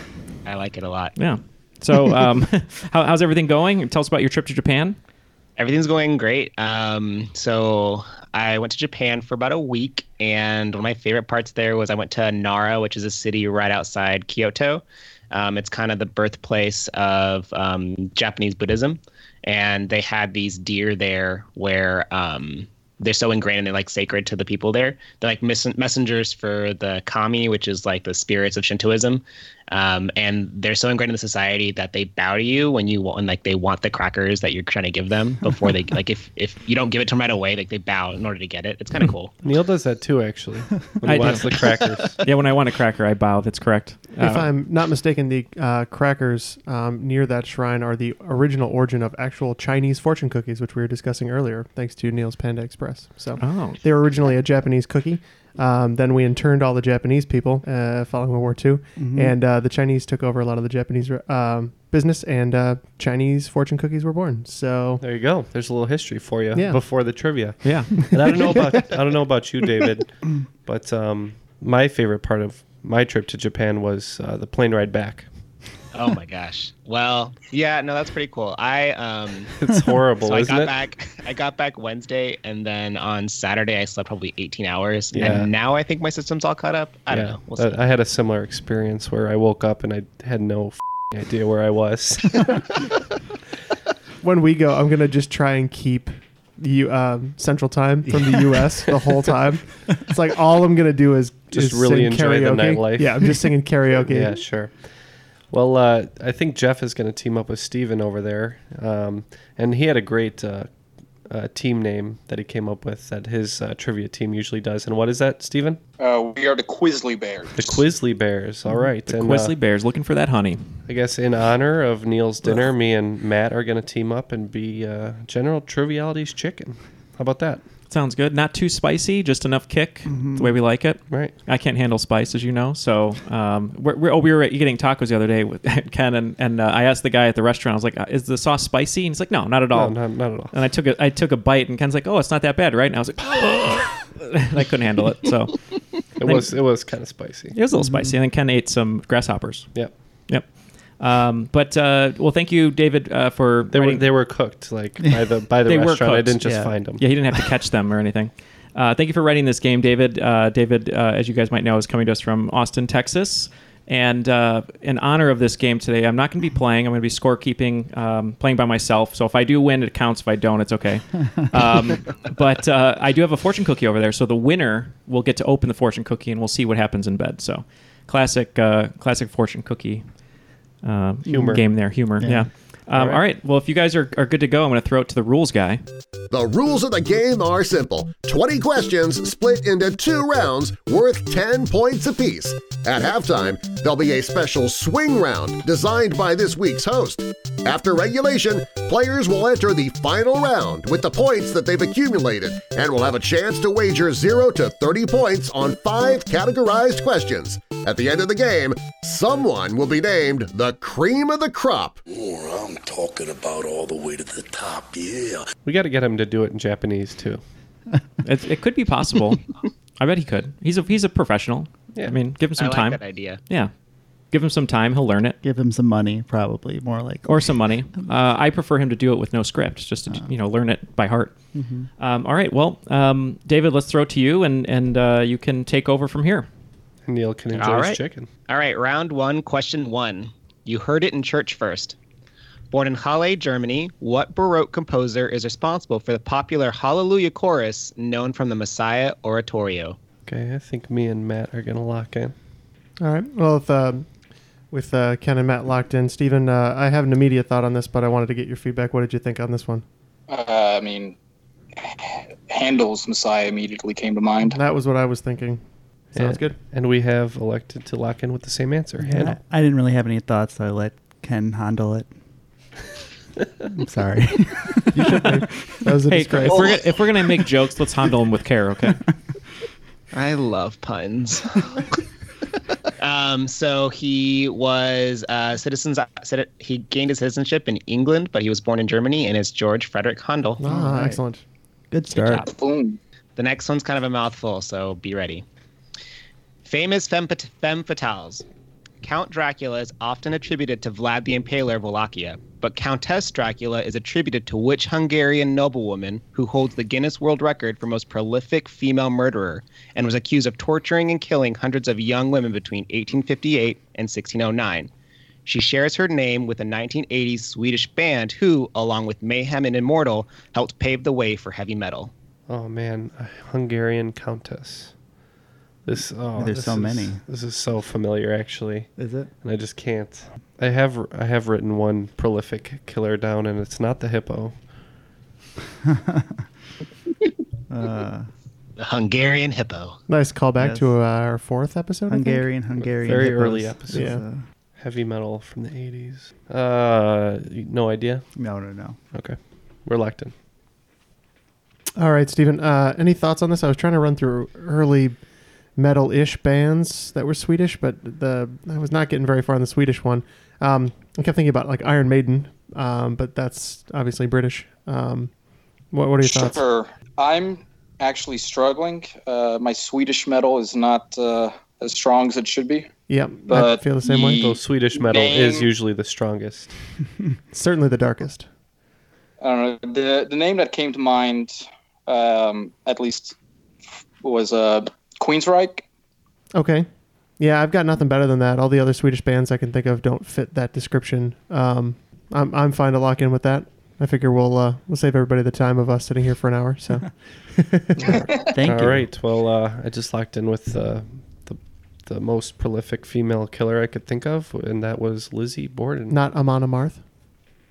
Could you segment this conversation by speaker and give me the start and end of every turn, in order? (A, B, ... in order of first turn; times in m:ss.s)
0:00.4-0:01.1 A
0:01.2-0:05.0 B
0:05.6-0:39.4 A
0:39.4-0:42.2 C
0:41.0-0:44.5 B
0:44.2-1:05.0 D
0:53.4-0:53.8 B
0:59.0-0:59.3 E
1:05.0-1:10.1 C
1:06.5-1:06.8 D
1:07.6-1:08.4 B
1:08.2-1:08.5 D
1:10.6-1:15.3 C
1:15.9-1:19.5 A
1:19.5-1:20.7 C
1:20.2-1:27.8 A
1:25.1-1:25.5 C
1:27.1-1:32.8 C
1:34.2-1:44.4 D
1:41.5-1:43.4 C
1:44.1-1:44.8 C
1:45.5-1:50.7 C
1:51.3-1:55.8 C
1:56.0-1:57.8 F
1:57.6-1:59.5 C
1:59.1-2:00.8 B
2:00.9-2:07.6 C
2:07.9-2:25.7 B
2:10.1-2:10.5 E
2:19.7-2:20.5 C
2:26.2-2:27.6 C
2:27.5-2:29.7 B
2:27.8-2:28.1 E
2:31.0-2:34.1 B
2:33.7-2:37.0 C
2:35.6-3:00.1 B
2:36.4-2:36.7 E
3:00.8-3:05.8 B
3:01.3-3:01.6 E
3:01.3-3:01.6 C
3:02.2-3:02.5 E
3:02.9-3:03.2 C
3:06.3-3:32.0 G
3:32.1-3:35.4 H
3:35.6-3:37.4 C
3:38.2-3:39.5 B
3:40.0-3:43.7 B
3:42.6-3:43.4 A
3:44.3-3:45.4 B
3:45.4-3:48.0 E
3:47.2-3:51.3 B
3:51.5-3:51.9 E
3:52.0-3:56.5 B
3:57.1-3:58.3 C
3:57.5-4:02.0 A
4:02.7-4:10.0 A
4:10.2-4:12.3 C
4:13.0-4:14.1 D
4:14.7-4:19.8 D
4:20.3-4:21.2 F
4:21.8-4:24.6 F
4:24.4-4:25.6 D
4:26.1-4:29.4 C
4:26.2-4:26.6 D
4:29.0-4:32.1 E
4:33.7-4:35.3 E
4:34.9-4:36.8 D
4:36.1-4:39.0 B
4:40.1-4:41.8 A
4:43.0-4:50.6 A
4:50.6-4:51.4 D
4:50.6-4:51.2 E
4:51.9-4:52.5 E
4:52.2-4:52.5 A
4:52.3-4:53.0 F
4:53.4-4:55.4 A
4:56.6-4:58.4 A
4:59.0-5:14.9 A
5:15.5-5:22.1 A
5:22.5-5:24.9 C
5:25.8-5:28.9 C
5:26.4-5:27.2 E
5:29.0-5:29.3 E
5:29.4-5:34.6 C
5:35.9-5:36.3 E
5:37.7-5:38.3 E
5:38.8-5:40.0 A
5:40.1-5:42.5 D
5:40.6-5:40.9 E
5:42.1-5:44.4 E
5:42.8-5:44.2 C
5:43.9-5:44.2 D
5:44.8-5:48.2 C
5:48.4-5:49.0 E
5:49.1-5:50.3 C
5:52.0-5:55.2 D
5:55.8-6:05.3 D
6:05.9-6:06.6 D
6:06.2-6:12.9 F
6:13.1-6:14.5 D
6:13.5-6:15.7 F
6:14.3-6:16.7 C
6:17.5-6:18.5 D
6:19.4-6:23.4 F
6:24.2-6:25.8 F
6:26.5-6:26.9 D
6:27.4-6:38.3 D
6:38.0-6:46.2 C
6:38.5-6:39.1 E
6:46.1-6:47.0 D